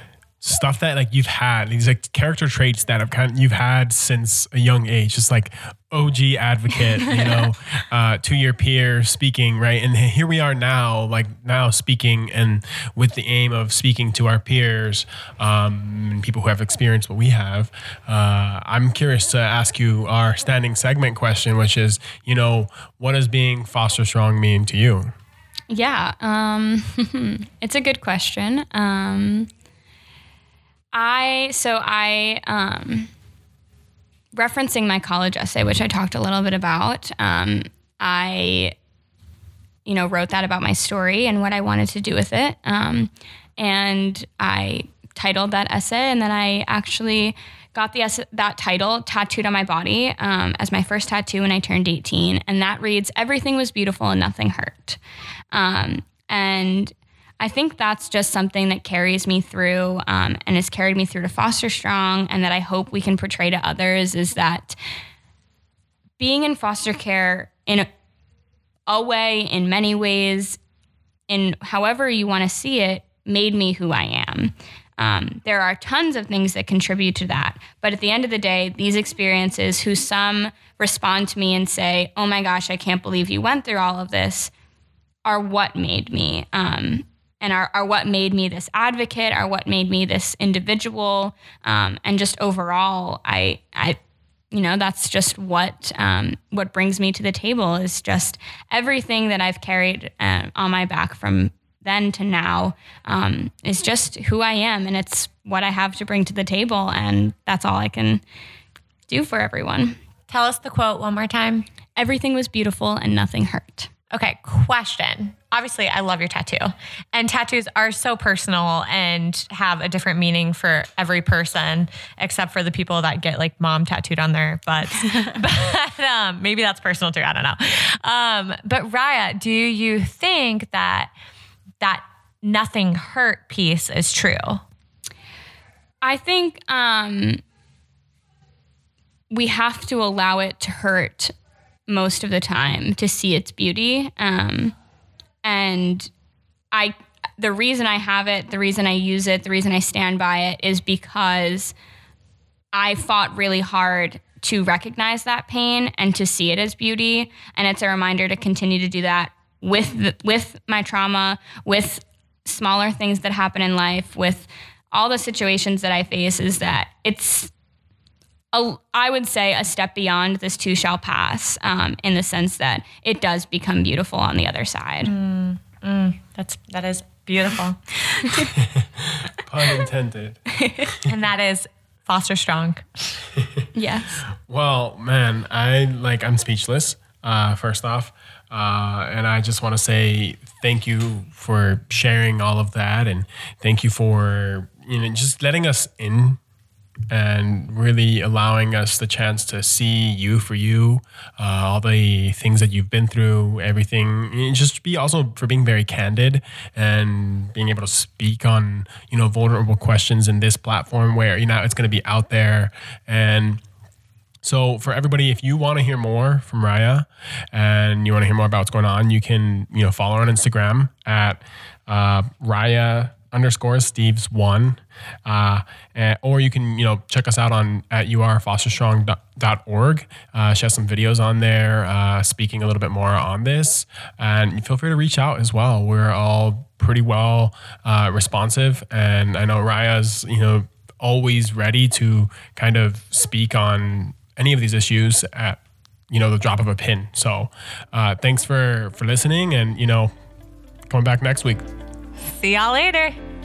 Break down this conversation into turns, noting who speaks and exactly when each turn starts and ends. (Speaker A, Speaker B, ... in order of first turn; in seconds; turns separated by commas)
Speaker A: 0.4-25.1, Speaker B: 25.7-29.5, Speaker B: 30.9-33.1, Speaker B: 34.3-38.7, Speaker B: 39.9-55.0, Speaker B: 55.5-64.8, Speaker B: 66.2-67.9, Speaker B: 68.9-70.6, Speaker B: 71.3-84.5, Speaker B: 85.2-94.0, Speaker B: 94.5-108.2, Speaker B: 109.1-110.0, Speaker C: 110.3-111.7, Speaker B: 112.0-113.9, Speaker C: 114.1-131.1, Speaker C: 131.8-134.6, Speaker B: 136.0-137.4, Speaker B: 139.3-141.3, Speaker B: 141.9-144.7, Speaker B: 145.4-146.1, Speaker B: 146.7-151.7, Speaker B: 152.7-167.5, Speaker B: 168.5-175.1, Speaker C: 175.0-178.2, Speaker A: 178.5-180.4, Speaker C: 181.0-183.2, Speaker B: 183.7-184.2, Speaker A: 184.5-196.4, Speaker A: 197.1-213.6, Speaker A: 214.4-245.6, Speaker A: 246.1-250.1, Speaker A: 250.9-251.6, Speaker C: 252.2-253.2